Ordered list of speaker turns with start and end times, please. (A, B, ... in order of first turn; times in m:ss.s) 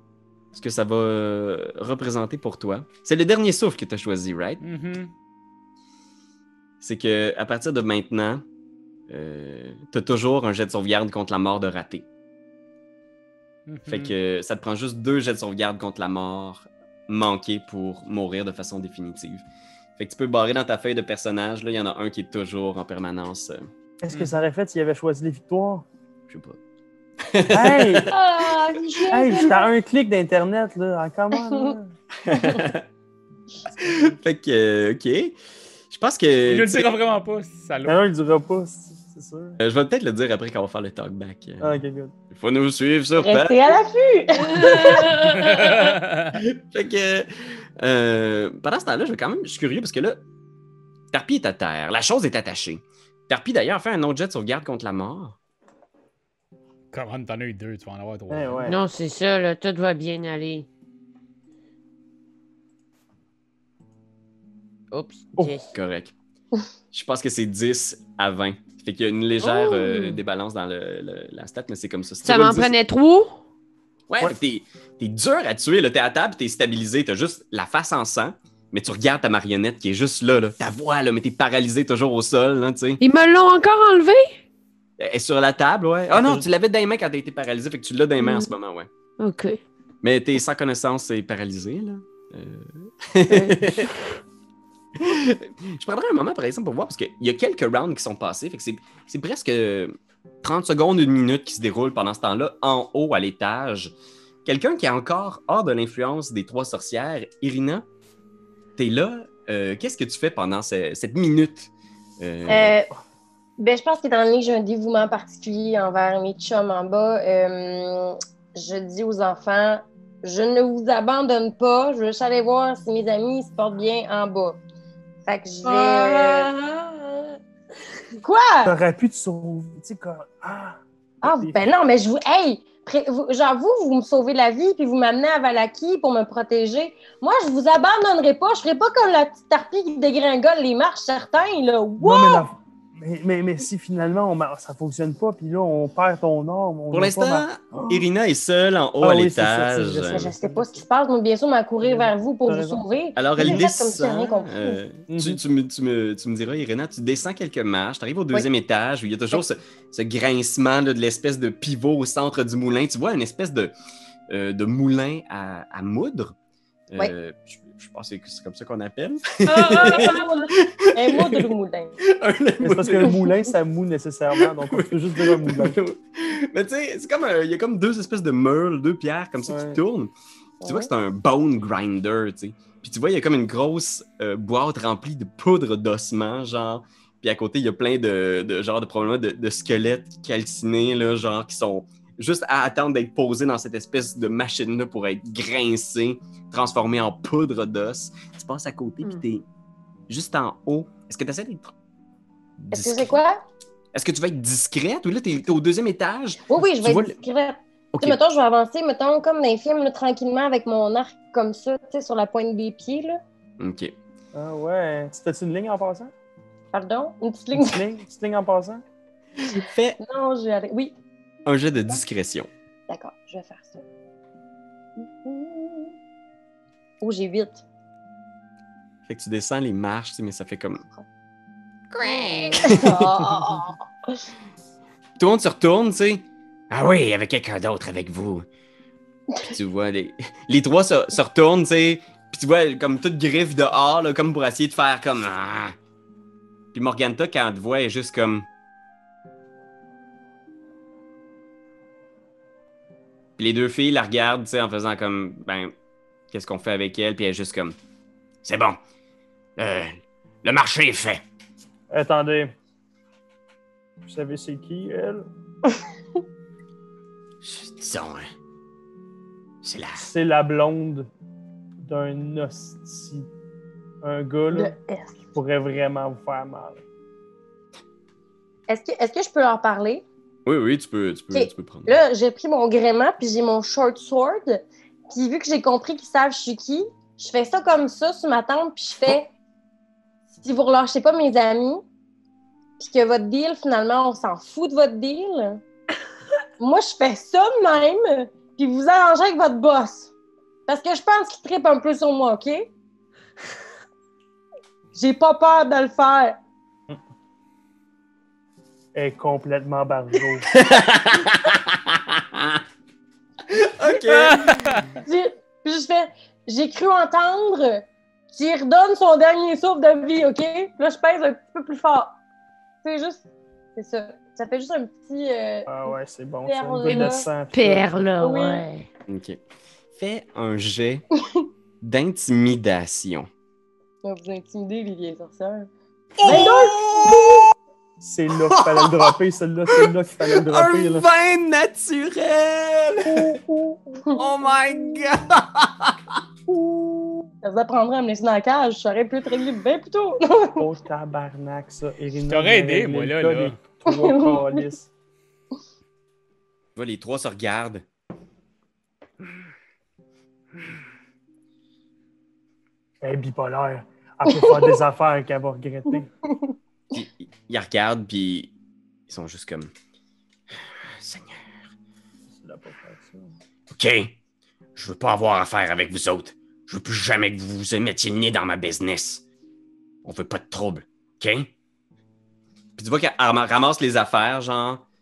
0:00.5-0:04.6 A
0:04.6-0:05.1 B
0:06.8-0:08.4 A
0:09.1-0:12.1 A
0:13.7-0:14.2 B
0:13.9-0:19.4 A
0:20.0-0:23.7 A
0:24.0-0:25.8 C
0:26.3-0:26.6 A
0:27.2-0:28.2 A
0:27.5-0:28.2 C
0:28.1-0:29.7 D
0:29.1-0:31.9 C
0:32.2-0:32.9 A
0:33.8-0:35.3 A
0:35.9-0:37.0 A
0:36.5-0:38.0 B
0:37.9-0:39.6 C
0:39.6-0:41.7 A
0:41.6-0:42.1 C
0:42.3-0:43.6 A
0:43.2-0:45.3 D
0:44.6-0:45.4 E
0:45.2-0:46.4 B
0:46.3-0:50.2 A
0:51.1-0:55.4 A
0:56.9-0:58.7 B
0:58.3-0:58.8 C
0:58.7-1:00.7 E
1:04.9-1:05.7 E
1:05.7-1:06.1 A
1:06.9-1:12.7 A
1:09.4-1:10.2 E
1:12.2-1:13.4 E
1:14.1-1:23.0 A
1:23.0-1:24.4 E
1:25.0-1:28.9 A
1:26.1-1:26.4 C
1:28.2-1:28.5 E
1:29.2-1:29.6 E
1:30.0-1:33.9 A
1:33.3-1:34.0 E
1:35.0-1:43.9 A
1:44.4-1:47.9 A
1:48.8-1:52.8 A
1:52.5-1:52.9 D
1:53.6-2:04.6 D
2:05.3-2:06.5 D
2:05.6-2:07.4 E
2:08.2-2:08.8 D
2:08.6-2:11.6 C
2:11.2-2:22.5 D
2:22.0-2:28.1 C
2:26.9-2:30.3 A
2:29.0-2:30.8 C
2:30.1-2:34.8 D
2:31.8-2:32.8 C
2:33.2-2:43.7 A
2:33.4-2:33.6 C
2:35.1-2:35.4 C
2:44.3-2:46.4 A
2:46.9-2:51.5 A
2:49.5-2:52.0 D
2:49.6-2:50.2 E
2:52.1-2:53.2 A
2:52.6-2:55.8 C
2:54.4-3:00.1 A
2:59.5-2:59.8 C
3:00.6-3:00.9 D
3:00.6-3:19.4 A
3:20.1-3:21.7 A
3:22.6-3:23.2 A
3:22.7-3:23.4 D
3:23.9-3:27.2 A
3:26.5-3:33.2 D
3:27.9-3:28.2 A
3:33.6-3:33.9 A
3:34.3-3:36.1 C
3:36.7-3:37.8 D
3:37.6-3:38.8 C
3:39.4-3:40.0 A
3:40.0-3:40.9 D
3:41.5-3:42.5 A
3:42.9-3:43.8 D
3:45.0-3:46.0 D
3:47.0-3:47.6 D
3:49.1-3:50.8 A
3:51.9-3:53.3 A
3:52.0-3:54.2 D
3:55.2-3:58.5 A
3:59.4-4:05.8 A
4:06.7-4:08.5 A
4:13.4-4:15.7 A
4:16.3-4:17.8 A
4:18.4-4:18.8 A
4:19.6-4:21.2 A
4:21.9-4:22.5 C
4:24.0-4:25.2 C
4:27.4-4:28.3 A
4:29.6-4:30.1 A
4:30.0-4:31.1 C
4:31.8-4:33.3 C
4:34.0-4:34.7 C
4:34.5-4:35.3 D
4:35.3-4:36.8 C
4:38.7-4:40.0 D
4:40.5-4:42.0 A
4:41.3-4:49.3 D
4:50.4-4:51.8 D
4:52.8-4:55.6 D
4:56.6-5:00.1 D
5:00.7-5:02.7 D
5:04.9-5:06.4 D
5:08.9-5:10.5 C
5:10.5-5:12.6 A
5:13.5-5:14.7 A
5:14.1-5:14.8 B
5:15.0-5:22.2 D
5:22.8-5:23.2 D
5:23.8-5:27.3 D
5:25.7-5:27.9 C
5:26.9-5:28.9 E
5:28.2-5:28.6 D
5:29.1-5:29.4 A
5:30.0-5:31.0 A
5:31.8-5:33.3 A
5:34.0-5:35.7 D
5:36.2-5:37.5 A
5:36.2-5:37.5 D
5:38.0-5:41.1 C
5:38.4-5:39.2 A
5:39.7-5:43.4 A
5:43.5-5:43.8 C
5:44.2-5:46.0 A
5:47.4-5:50.6 D
5:50.6-5:54.9 C
5:52.3-5:53.6 B
5:53.9-5:54.7 D
5:56.8-5:57.8 A
6:03.0-6:06.1 C
6:04.3-6:04.8 D
6:06.9-6:08.5 A
6:09.1-6:09.7 A
6:10.7-6:11.5 A
6:12.4-6:13.3 C
6:13.7-6:14.2 A
6:14.8-6:19.2 A
6:20.0-6:21.5 A
6:22.8-6:24.8 A